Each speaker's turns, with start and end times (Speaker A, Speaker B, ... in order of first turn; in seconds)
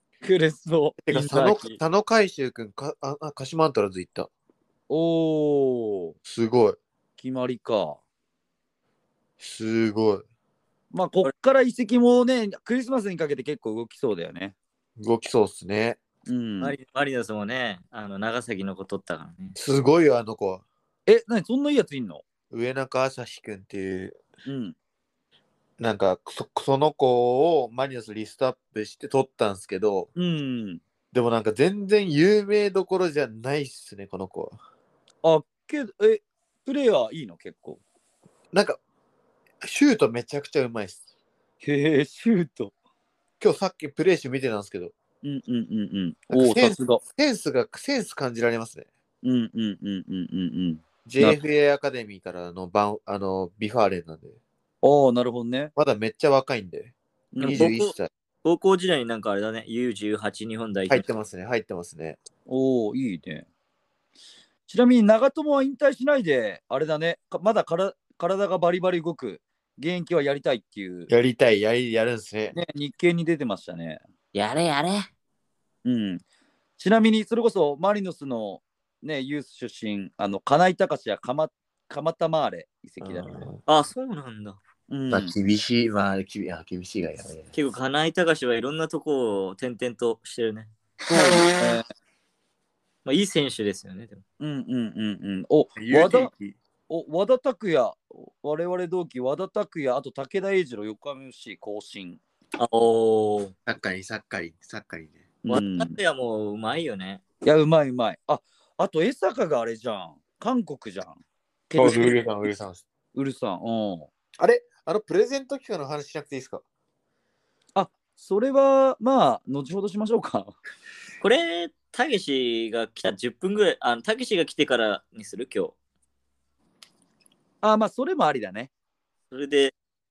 Speaker A: 0.2-1.7, 4.9-6.2, 7.2-8.0, 10.9-14.6, 16.3-16.8, 21.1-22.2, 24.5-24.8, 30.2-30.8, 35.2-37.8, 41.6-42.7, 45.2-47.0, 49.2-51.4, 54.8-55.7, 57.3-57.8, 62.5-63.5, 64.7-71.1, 72.5-74.0, 75.8-76.2, 76.8-83.5, 84.9-85.3, 91.1-91.9, 94.4-96.3, 96.9-102.2, 105.5-106.0, 107.4-112.2, 113.2-114.1, 117.8-120.5, 127.6-128.7
Speaker B: 1.1-4.3, 6.2-6.8, 9.4-10.2, 15.0-16.0, 19.6-20.6, 22.5-24.2, 25.8-30.1, 31.1-34.6, 38.5-38.8, 39.6-41.0, 43.4-44.9, 46.3-48.9, 51.0-54.4, 55.8-58.1, 60.9-62.2, 71.1-72.6, 83.0-83.6, 85.1-87.5, 95.8-96.6, 103.7-105.3, 111.8-112.8, 114.4-116.6
Speaker C: 1.1-1.7, 16.6-19.6, 57.4-57.9, 58.4-61.1, 74.3-75.0, 83.7-84.6, 87.5-90.7, 93.0-94.2, 102.6-103.5, 105.5-107.2, 121.2-125.8, 129.3-129.7